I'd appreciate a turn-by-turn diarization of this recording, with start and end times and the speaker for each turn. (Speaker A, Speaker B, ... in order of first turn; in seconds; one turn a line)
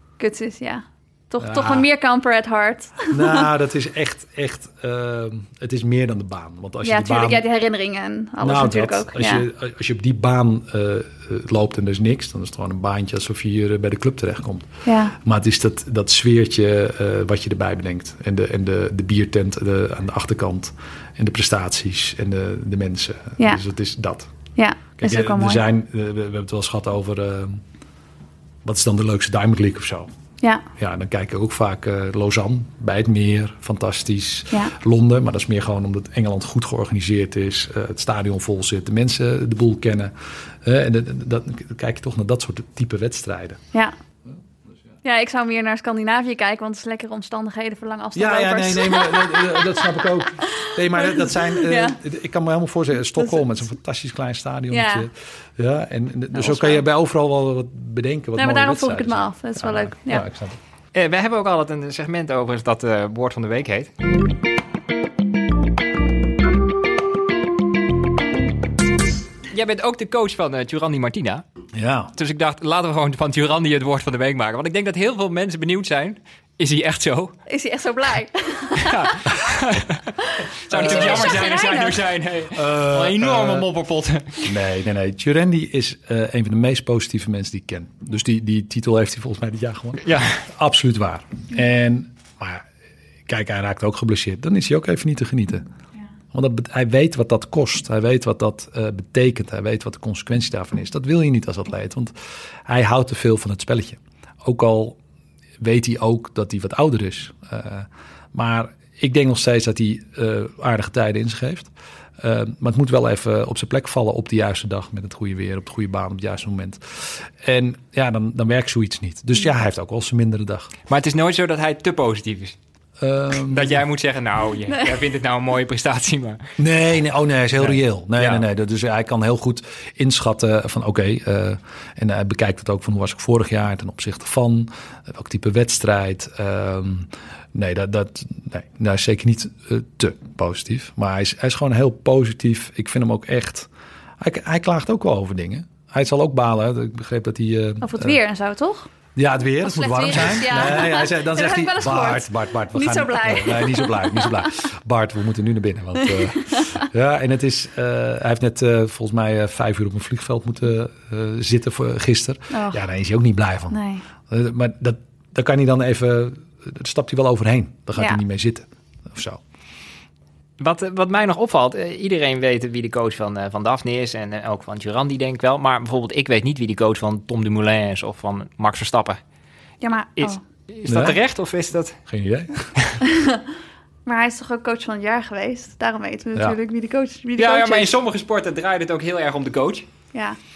Speaker A: 0.2-3.5
Speaker B: 1.4-1.9
Speaker B: 3.1-7.4
Speaker A: 6.8-9.4
Speaker B: 8.4-24.3
Speaker A: 14.8-15.1
Speaker A: 24.6-25.6
Speaker B: 25.0-27.6
Speaker B: 28.6-30.1
Speaker B: 30.8-43.6
Speaker A: 45.0-52.0
Speaker B: 48.1-60.6
Speaker A: 53.2-53.4
Speaker A: 54.7-55.1
Speaker A: 56.3-56.8
Speaker A: 58.4-60.2
Speaker C: 60.9-63.9
Speaker C: 69.5-71.4
Speaker B: 71.7-72.1
Speaker C: 72.1-77.3
Speaker A: 77.5-79.3
Speaker C: 78.8-80.2
Speaker A: 80.2-82.0
Speaker C: 80.7-84.5
Speaker B: 80.7-81.1
Speaker B: 82.5-83.7
Speaker B: 84.4-92.7
Speaker C: 90.0-90.4
Speaker B: 93.3-95.6
Speaker B: 96.3-102.1
Speaker B: 102.7-105.0
Speaker B: 105.6-120.7
Speaker C: 120.9-122.6
Speaker B: 123.0-123.8
Speaker C: 123.3-126.5
Speaker B: 126.6-143.7
Speaker C: 127.6-128.4
Speaker B: 144.2-148.2
Speaker A: 147.8-148.9
Speaker B: 149.1-169.4
Speaker A: 149.6-154.5
Speaker A: 156.2-156.7
Speaker A: 162.5-162.8
Speaker A: 163.7-164.0
Speaker C: 170.6-179.2
Speaker A: 179.8-180.4
Speaker C: 180.2-182.0
Speaker B: 180.9-181.2
Speaker B: 182.1-182.7
Speaker A: 183.1-183.4
Speaker A: 184.1-187.9
Speaker C: 187.3-189.9
Speaker A: 190.1-190.4